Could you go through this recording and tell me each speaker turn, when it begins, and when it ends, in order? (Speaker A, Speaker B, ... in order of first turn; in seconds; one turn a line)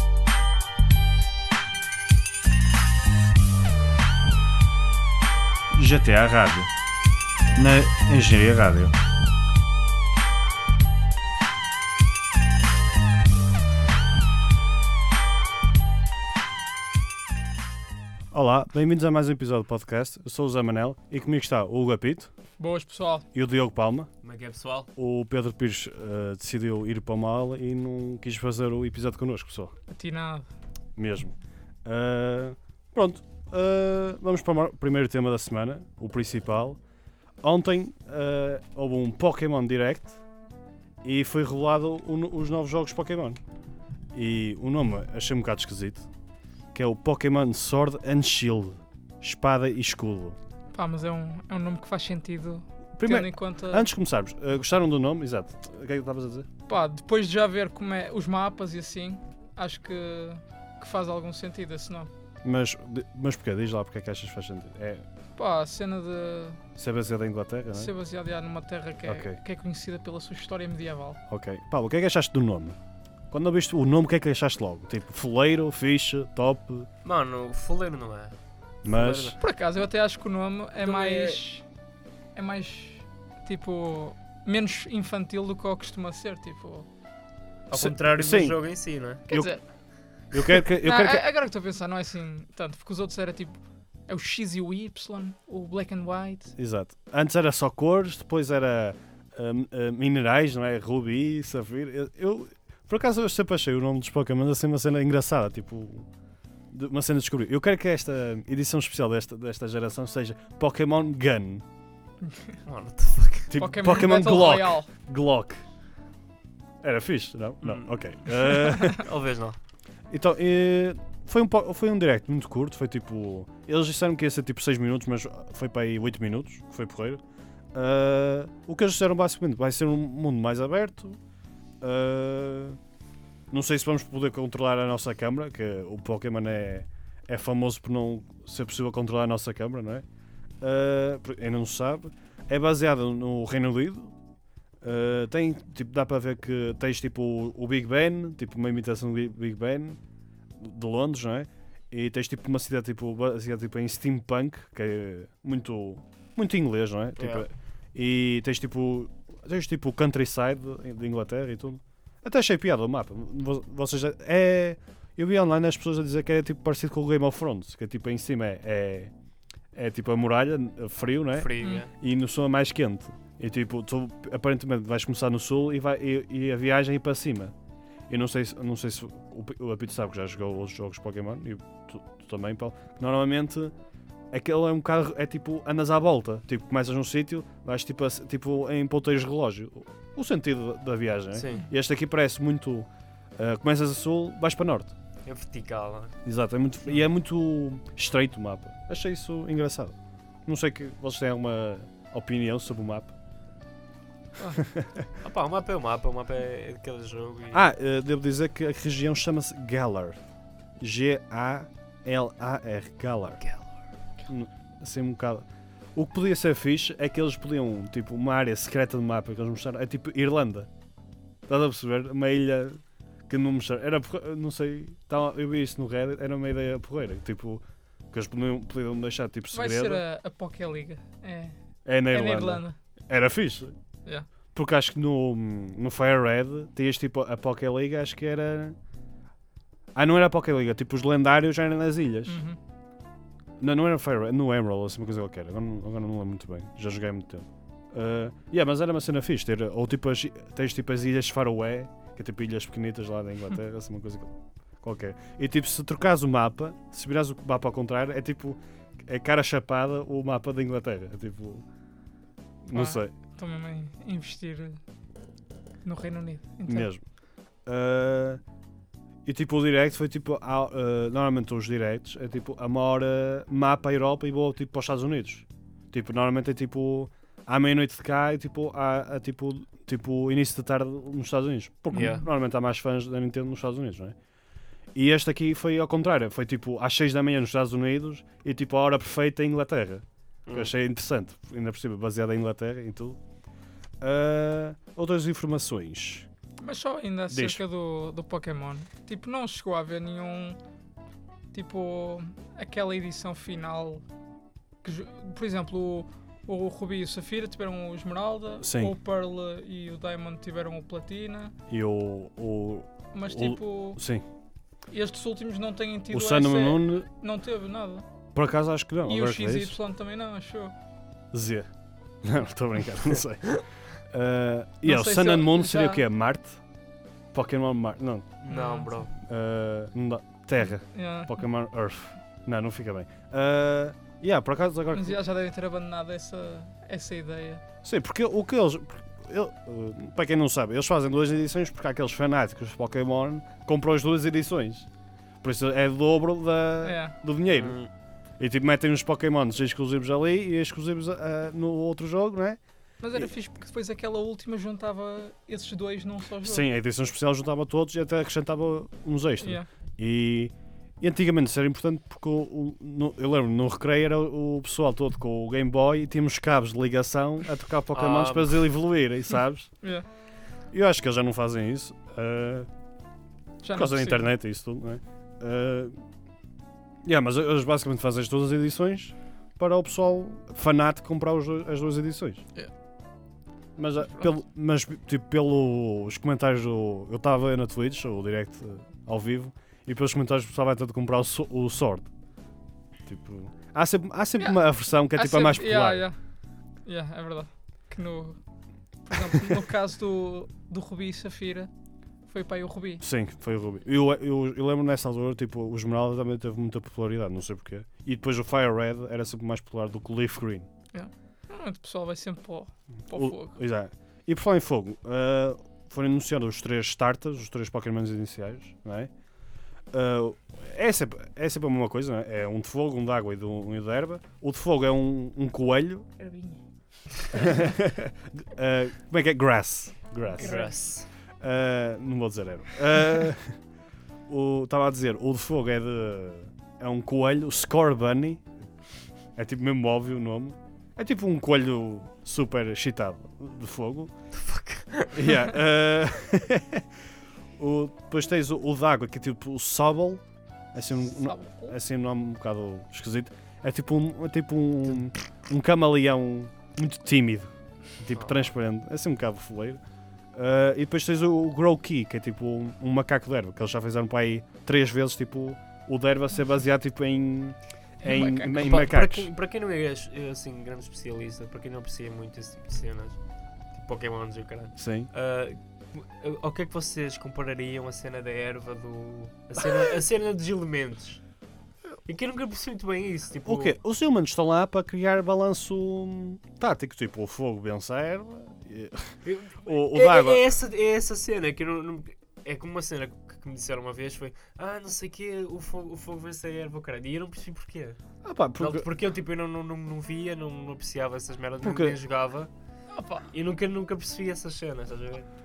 Speaker A: 5.7-6.7
Speaker A: 7.5-8.9
Speaker A: 18.3-22.3
Speaker B: 22.6-23.2
Speaker A: 23.3-24.1
Speaker C: 24.2-24.9
Speaker A: 24.9-29.7
Speaker B: 29.9-30.5
Speaker A: 30.9-31.3
Speaker A: 31.8-36.8
Speaker A: 37.4-40.2
Speaker A: 41.0-43.4
Speaker A: 44.1-46.1
Speaker A: 46.7-50.4
Speaker B: 50.7-53.9
Speaker A: 53.0-56.5
Speaker B: 56.7-62.1
Speaker A: 62.4-65.0
Speaker B: 65.4-66.6
Speaker A: 66.8-67.9
Speaker B: 67.7-71.2
Speaker A: 69.0-69.4
Speaker A: 71.3-72.8
Speaker A: 73.3-76.9
Speaker C: 77.0-79.4
Speaker A: 78.8-79.3
Speaker B: 79.4-81.7
Speaker C: 80.8-81.4
Speaker B: 82.3-86.9
Speaker C: 87.7-89.2
Speaker A: 87.7-88.6
Speaker A: 89.3-89.5
Speaker B: 89.3-89.6
Speaker A: 90.3-91.2
Speaker B: 90.4-96.5
Speaker A: 96.5-106.1
Speaker A: 106.7-111.6
Speaker B: 112.2-112.6
Speaker C: 112.7-113.5
Speaker A: 113.5-115.6
Speaker B: 113.5-114.9
Speaker A: 116.8-119.0
Speaker C: 117.6-119.6
Speaker A: 120.1-127.2
Speaker A: 127.7-131.2
Speaker A: 131.8-132.8
Speaker A: 133.5-140.0
Speaker A: 140.6-144.1
Speaker A: 144.8-150.0
Speaker A: 150.6-169.1
Speaker C: 157.2-157.4
Speaker A: 169.7-177.5
Speaker C: 171.4-171.9
Speaker A: 178.1-183.7
Speaker A: 184.3-194.9
Speaker C: 191.3-191.7
Speaker C: 195.2-196.2
Speaker A: 196.2-199.9
Speaker A: 200.4-203.1
Speaker A: 204.6-205.1
Speaker C: 205.2-207.6
Speaker A: 207.5-210.2
Speaker A: 210.8-213.4
Speaker A: 214.3-220.7
Speaker A: 221.5-230.0
Speaker B: 229.5-231.5
Speaker A: 231.8-233.7
Speaker B: 232.1-232.8
Speaker A: 234.5-238.8
Speaker A: 239.9-242.4
Speaker B: 242.2-242.6
Speaker A: 243.6-261.6
Speaker A: 262.6-263.1
Speaker B: 262.7-264.8
Speaker B: 265.8-266.9
Speaker A: 266.6-267.0
Speaker A: 267.6-268.4
Speaker A: 269.2-284.1
Speaker B: 281.9-282.2
Speaker C: 281.9-282.2
Speaker A: 284.9-293.2
Speaker A: 294.0-296.3
Speaker B: 296.6-300.6
Speaker A: 297.3-297.6
Speaker B: 301.5-304.0
Speaker B: 304.8-311.5
Speaker A: 308.6-308.9
Speaker A: 311.7-314.2
Speaker B: 313.1-314.0
Speaker B: 314.9-318.0
Speaker A: 316.1-317.1
Speaker A: 318.3-319.8
Speaker B: 319.0-320.7
Speaker A: 321.3-321.7
Speaker A: 322.2-323.6
Speaker A: 324.1-326.6
Speaker B: 324.8-326.0
Speaker A: 327.3-328.4
Speaker C: 328.4-329.1
Speaker B: 328.5-329.1
Speaker A: 329.2-335.2
Speaker B: 330.8-331.4
Speaker B: 334.9-337.6
Speaker A: 337.8-344.9
Speaker A: 345.4-347.8
Speaker B: 346.8-347.1
Speaker C: 347.5-347.9
Speaker A: 348.4-352.6
Speaker B: 353.0-356.7
Speaker A: 356.4-369.7
Speaker B: 359.4-359.6
Speaker C: 367.9-368.7
Speaker A: 370.7-372.7
Speaker B: 373.6-374.3
Speaker A: 373.7-375.9
Speaker A: 377.0-382.4
Speaker A: 383.8-392.1
Speaker B: 384.0-384.3
Speaker A: 393.1-396.1
Speaker B: 395.1-396.2
Speaker B: 396.8-398.4
Speaker B: 399.0-401.7
Speaker B: 402.3-403.0
Speaker A: 403.0-410.7
Speaker B: 410.9-413.5
Speaker A: 413.1-419.1
Speaker A: 419.9-426.1
Speaker B: 426.2-426.6
Speaker A: 427.3-430.7
Speaker B: 430.3-430.7
Speaker C: 430.4-431.1
Speaker A: 431.4-433.6
Speaker A: 434.3-438.4
Speaker A: 439.4-444.1
Speaker C: 444.3-445.2
Speaker A: 445.1-446.8
Speaker A: 447.6-450.2
Speaker A: 450.7-459.8
Speaker B: 450.9-451.8
Speaker C: 458.1-458.4
Speaker A: 460.3-469.3
Speaker B: 468.0-468.6
Speaker C: 468.5-473.2
Speaker C: 473.7-481.2
Speaker A: 474.8-475.1
Speaker C: 482.1-483.7
Speaker A: 483.4-490.5
Speaker C: 489.2-498.0
Speaker A: 498.2-498.9
Speaker C: 498.6-502.5
Speaker A: 501.6-501.9
Speaker B: 502.9-503.2
Speaker C: 503.3-505.3